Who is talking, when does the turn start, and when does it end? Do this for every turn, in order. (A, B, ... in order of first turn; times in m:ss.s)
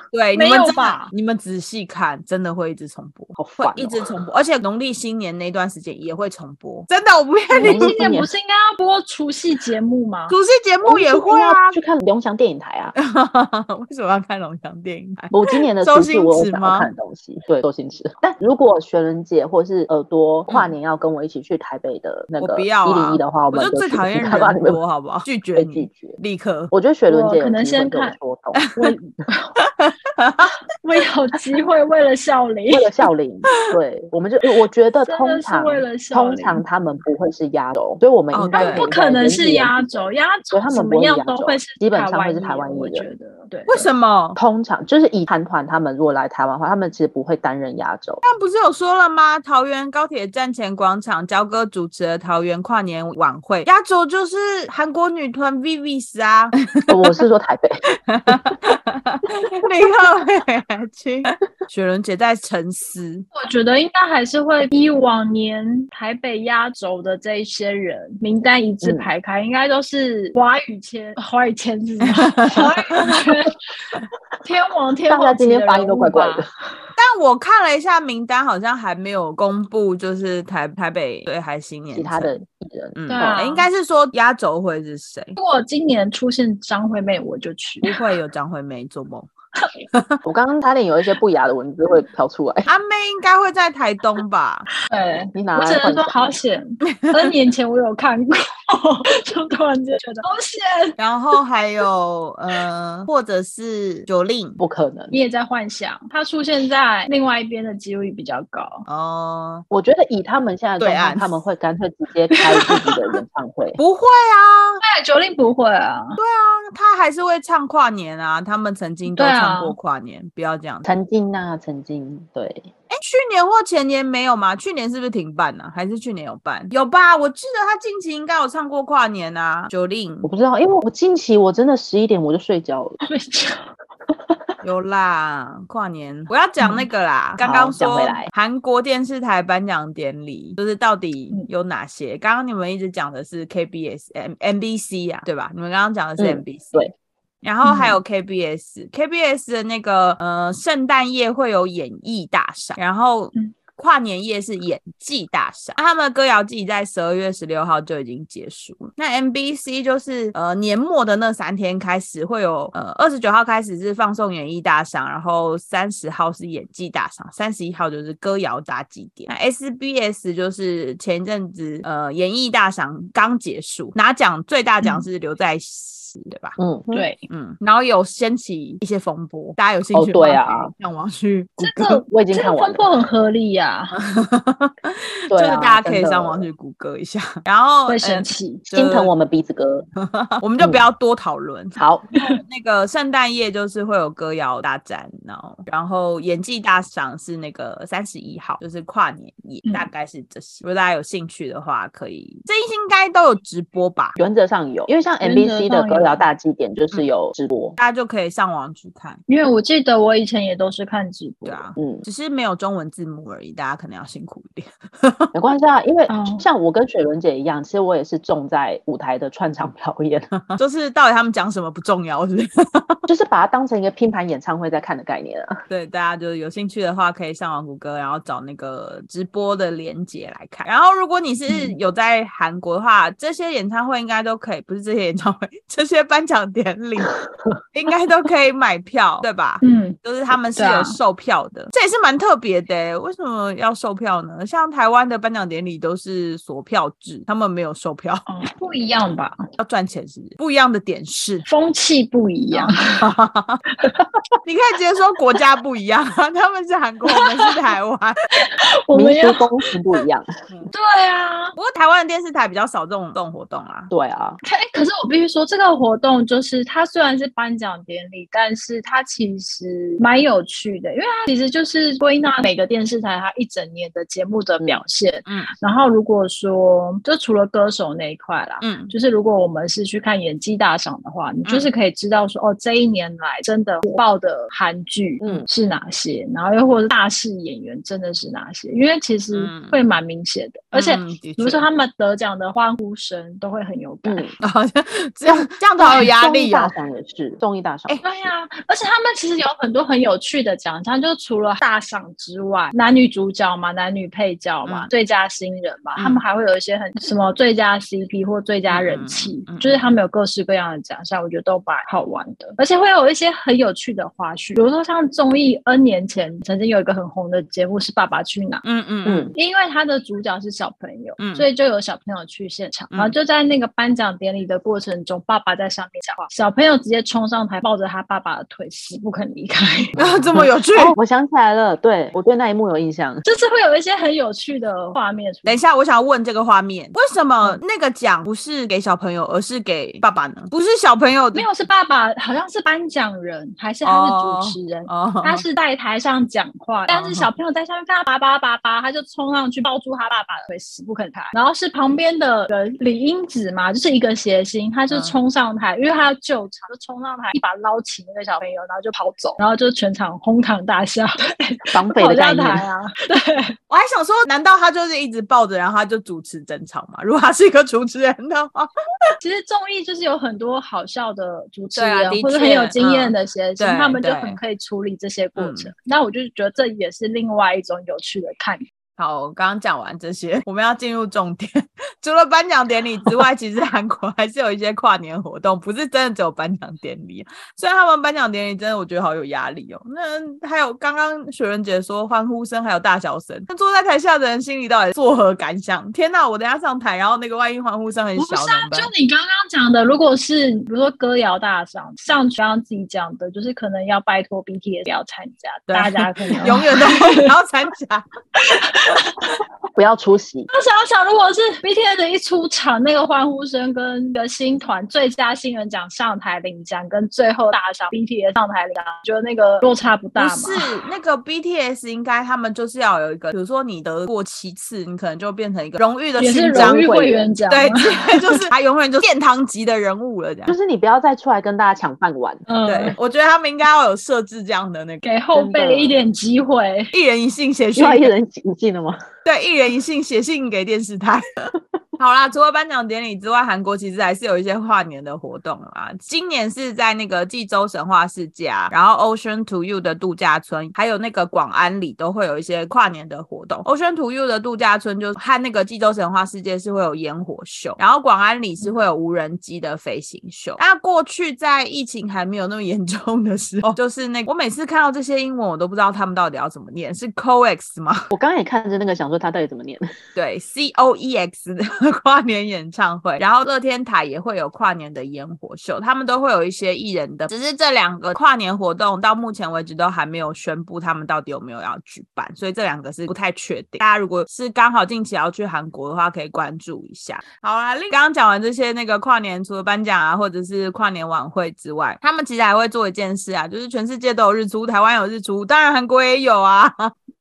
0:00.1-0:07.9 A
0:00.4-0:01.1 B
0:03.4-0:04.1 C
0:07.5-0:10.4 B
0:07.6-0:08.3 C
0:10.3-0:11.8 A
0:10.9-0:12.9 C
0:12.9-0:16.9 A
0:15.3-0:24.8 C
0:22.4-0:26.7 A
0:25.6-0:26.2 C
0:26.7-0:28.6 C
0:27.1-0:28.2 B
0:28.6-0:28.9 A
0:28.8-0:29.6 B
0:29.6-0:30.5 A
0:30.8-0:33.0 B
0:32.7-0:43.1 C
0:35.0-0:36.6 B
0:38.3-0:38.9 A
0:38.5-0:43.9 B
0:43.7-0:44.4 A
0:44.4-0:48.2 C
0:48.2-0:57.0 A
0:56.9-0:57.8 C
0:58.0-1:03.2 A
0:58.3-0:58.5 C
1:03.3-1:13.6 B
1:08.8-1:09.1 C
1:12.0-1:13.2 A
1:14.4-1:16.5 B
1:15.1-1:16.5 C
1:17.0-1:22.4 A
1:21.9-1:23.3 C
1:23.0-1:25.4 A
1:23.1-1:23.7 B
1:25.4-1:28.0 B
1:27.8-1:29.3 A
1:29.9-1:30.2 A
1:30.2-1:32.7 C
1:32.6-1:34.7 A
1:34.8-1:41.0 B
1:35.4-1:36.4 C
1:36.9-1:37.3 A
1:41.0-1:44.6 A
1:44.6-1:45.1 C
1:45.1-1:48.8 B
1:48.9-1:49.6 A
1:49.7-1:53.8 C
1:50.8-1:51.4 A
1:52.6-1:52.9 B
1:53.8-1:54.8 A
1:54.8-1:56.2 B
1:56.2-2:00.9 A
1:59.1-1:59.8 B
2:00.8-2:02.7 C
2:02.9-2:10.3 A
2:10.2-2:13.0 C
2:13.0-2:13.7 B
2:14.6-2:26.8 A
2:17.4-2:18.3 C
2:26.2-2:26.9 C
2:27.4-2:56.6 A
2:27.6-2:28.0 B
2:56.6-2:57.1 C
2:56.9-2:57.2 B
2:57.3-3:02.0 A
2:59.9-3:00.7 C
3:01.6-3:04.0 B
3:02.0-3:02.9 C
3:04.0-3:09.1 A
3:05.3-3:06.5 C
3:07.9-3:08.6 B
3:08.7-3:09.9 C
3:10.0-3:24.2 A
3:11.8-3:12.1 C
3:24.2-3:27.8 C
3:25.2-3:26.2 B
3:27.8-3:29.2 A
3:29.3-3:31.6 B
3:31.4-3:35.3 A
3:31.8-3:32.0 C
3:35.3-3:40.3 C
3:36.1-3:36.4 B
3:40.5-3:43.0 A
3:43.1-3:45.6 C
3:45.7-3:57.1 A
3:57.7-4:08.2 A
3:59.6-4:00.0 B
4:00.6-4:01.0 B
4:08.3-4:09.4 B
4:09.6-4:11.4 A
4:11.4-4:13.0 B
4:12.5-4:13.6 A
4:13.8-4:14.1 B
4:14.4-4:18.2 A
4:17.1-4:17.5 B
4:18.4-4:19.5 B
4:18.9-4:20.3 C
4:20.7-4:21.6 B
4:21.6-4:23.9 A
4:23.9-4:24.4 C
4:24.4-4:54.3 B
4:35.3-4:35.5 A
4:38.6-4:38.9 A
4:49.3-4:49.8 A
4:50.7-4:51.6 A
4:54.0-4:54.3 C
4:54.4-4:56.7 A
4:55.2-4:58.3 C
4:58.0-5:18.6 B
5:06.0-5:06.2 A
5:08.7-5:09.8 A
5:18.6-5:19.3 A
5:19.0-5:19.3 C
5:19.3-5:30.0 B
5:21.2-5:21.4 A
5:30.0-5:31.0 A
5:30.0-5:33.2 C
5:33.2-5:35.6 B
5:35.4-5:41.4 A
5:41.3-6:03.6 B
5:43.8-5:45.4 A
5:46.9-5:47.3 A
6:01.7-6:02.6 C
6:03.7-6:08.7 A
6:09.2-6:18.6 B
6:11.7-6:14.4 A
6:15.4-6:15.7 A
6:19.0-6:38.9 A
6:38.2-6:47.3 B
6:45.7-6:48.0 A
6:48.4-6:49.4 B
6:49.8-6:50.5 C
6:50.5-7:00.7 B
7:00.2-7:06.8 A
7:06.2-7:08.4 B
7:06.5-7:07.3 C
7:07.5-7:10.6 A
7:10.5-7:12.4 C
7:12.5-7:13.0 B
7:12.6-7:15.0 A
7:15.0-7:16.9 B
7:15.3-7:16.1 C
7:16.9-7:18.1 A
7:17.8-7:19.0 C
7:19.2-7:48.1 A
7:48.1-7:49.9 C
7:50.1-8:16.9 A